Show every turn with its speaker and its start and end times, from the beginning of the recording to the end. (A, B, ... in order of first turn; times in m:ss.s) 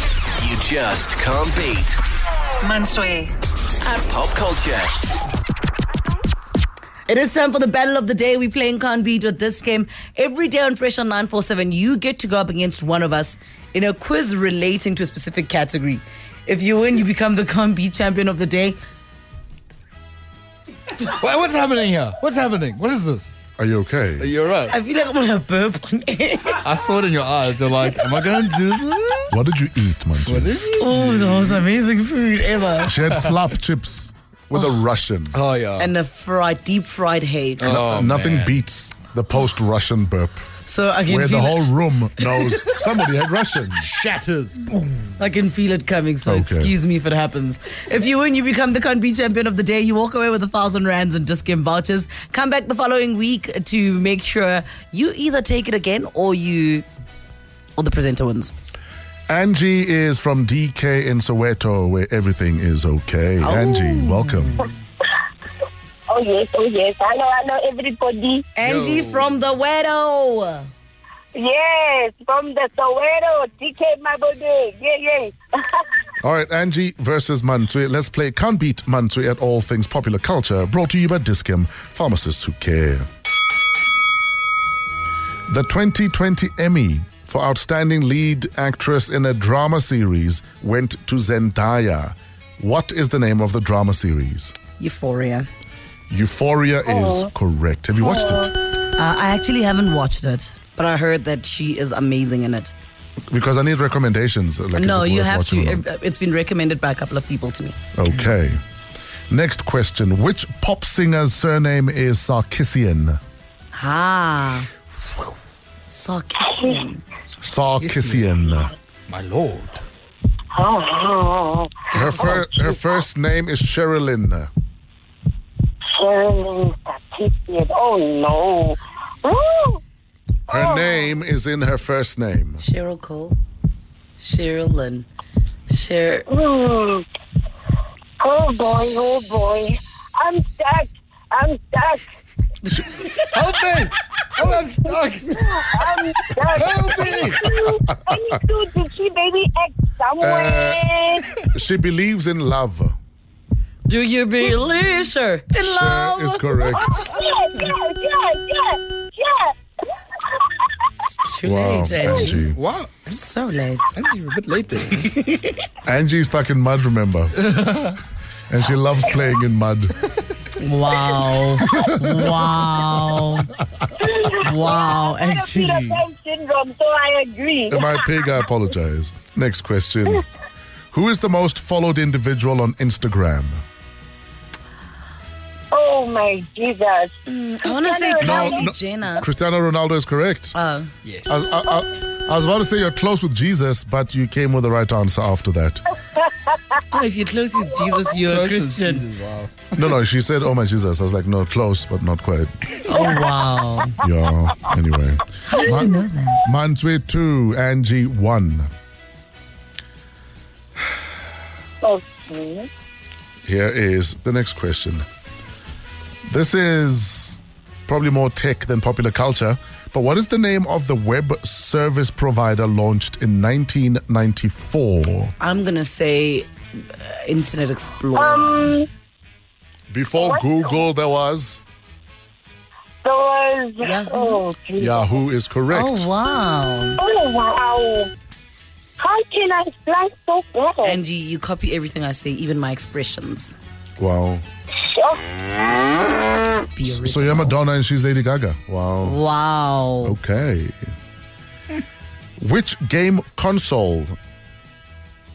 0:00.4-0:02.0 A
0:03.8-0:05.0 A
0:07.1-0:18.8 B
0:21.1-0:23.4 C
0:23.6-0:24.3 D
0:24.2-0:24.8 C
0:24.7-0:26.7 B
0:26.6-0:29.4 C
0:29.3-0:30.6 D
0:30.2-0:31.6 C
0:30.8-0:32.9 B
0:32.9-0:35.4 D
0:35.3-0:35.9 C
0:35.8-0:37.8 B
0:37.6-0:38.6 C
0:37.7-0:40.4 D
0:40.6-0:41.7 B
0:41.1-0:43.9 D
0:43.8-0:44.8 C
0:45.2-0:56.9 B
0:46.3-0:46.7 D
0:57.8-0:58.5 B
0:59.3-1:04.6 D
1:03.4-1:04.7 B
1:06.1-1:08.5 E
1:08.6-1:10.7 B
1:08.6-1:09.3 C
1:11.4-1:15.8 E
1:16.2-1:23.1 D
1:25.5-1:34.6 D
1:34.8-1:35.5 B
1:36.1-1:38.5 D
1:36.9-1:37.3 E
1:38.0-1:38.5 E
1:39.0-1:42.7 B
1:43.3-1:45.8 D
1:44.8-1:47.8 B
1:48.0-1:48.6 D
1:49.3-1:53.2 D
1:53.7-1:54.7 B
1:55.9-1:57.0 B
1:56.4-1:56.8 E
1:57.4-1:58.7 D
1:57.8-1:58.4 C
1:59.1-1:59.8 C
2:00.5-2:02.8 E
2:01.9-2:02.5 B
2:01.9-2:04.5 D
2:05.9-2:09.8 E
2:10.5-2:12.6 D
2:10.5-2:11.1 E
2:12.6-2:13.4 B
2:14.2-2:15.1 B
2:15.7-2:16.3 B
2:16.3-2:17.1 E
2:18.2-2:22.0 E
2:22.7-2:23.2 B
2:23.3-2:25.6 C
2:25.4-2:31.4 E
2:26.5-2:27.4 C
2:30.2-2:30.9 D
2:31.4-2:33.0 D
2:33.9-2:36.8 B
2:35.6-2:37.0 D
2:36.9-2:39.6 E
2:40.3-2:40.7 E
2:41.1-2:42.5 B
2:41.4-2:42.6 D
2:42.1-2:43.1 C
2:43.1-2:44.0 B
2:44.0-2:45.1 C
2:45.0-2:45.5 B
2:45.9-2:47.4 D
2:47.6-2:48.0 C
2:48.5-2:50.0 D
2:50.6-2:53.5 B
2:54.0-2:58.2 E
2:54.4-2:56.0 B
2:57.7-3:00.2 D
3:00.9-3:03.6 D
3:05.7-3:08.6 E
3:07.3-3:09.3 B
3:08.2-3:10.6 D
3:10.5-3:10.9 B
3:11.0-3:11.5 C
3:11.3-3:15.9 D
3:16.9-3:19.1 B
3:18.3-3:19.5 C
3:19.7-3:22.5 D
3:22.8-3:24.0 B
3:24.0-3:28.7 D
3:25.5-3:26.5 B
3:31.8-3:32.7 E
3:33.4-3:35.0 D
3:36.3-3:45.3 D
3:45.4-3:48.8 B
3:48.2-3:48.9 E
3:49.9-3:51.6 D
3:50.2-3:50.9 E
3:53.0-3:55.2 E
3:53.8-3:54.4 B
3:54.8-3:56.1 D
3:55.7-3:57.0 B
3:57.0-3:58.1 E
3:59.0-4:01.0 E
4:00.8-4:03.6 B
4:04.0-4:04.4 D
4:04.7-4:05.2 E
4:06.6-4:07.6 B
4:06.9-4:09.2 D
4:09.0-4:10.2 B
4:10.0-4:10.9 D
4:12.4-4:14.2 D